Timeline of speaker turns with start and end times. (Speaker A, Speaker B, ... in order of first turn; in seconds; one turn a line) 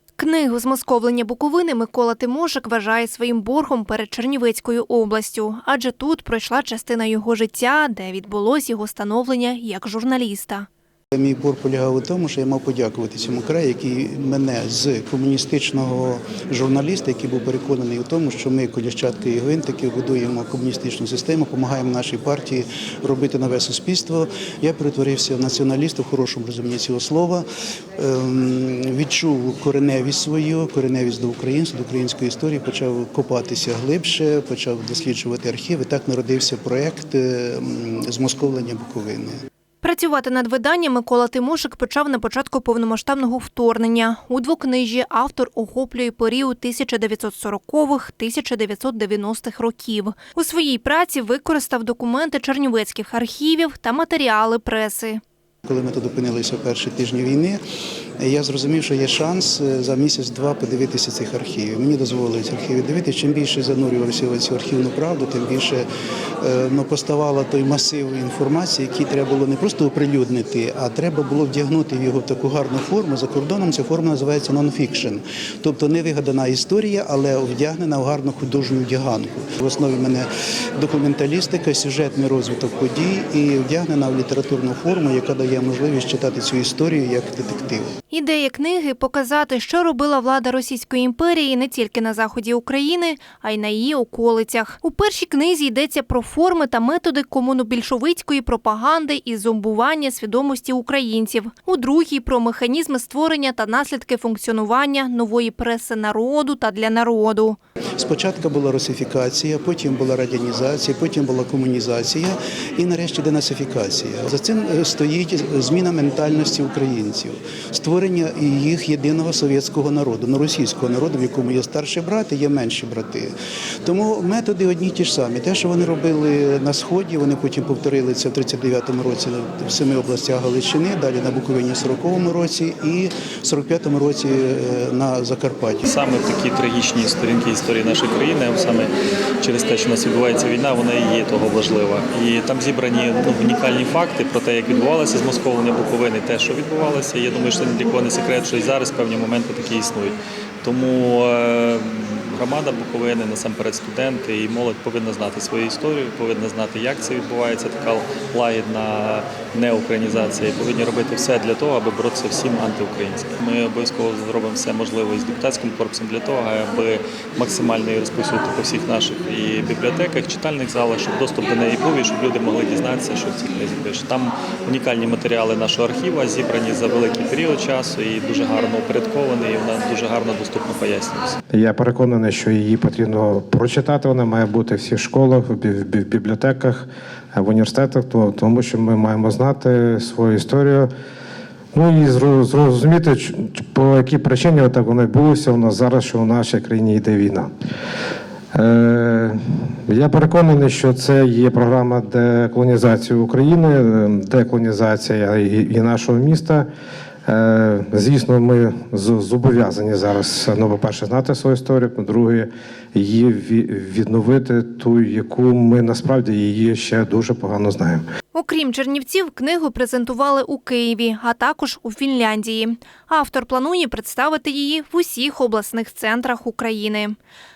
Speaker A: 0.2-10.7
Speaker B: 11.1-27.4
Speaker B: 28.0-39.3
Speaker A: 39.8-55.2
Speaker B: 55.6-57.6
Speaker B: 58.2-65.8
Speaker B: 66.4-87.9
Speaker A: 88.1-107.6
Speaker B: 108.0-123.3
Speaker B: 123.8-135.8
Speaker C: 135.8-138.9
Speaker C: 139.4-181.3
Speaker D: 181.5-190.9
Speaker D: 191.7-197.5
Speaker D: 198.5-206.7
Speaker D: 207.2-218.0
Speaker A: 218.3-227.2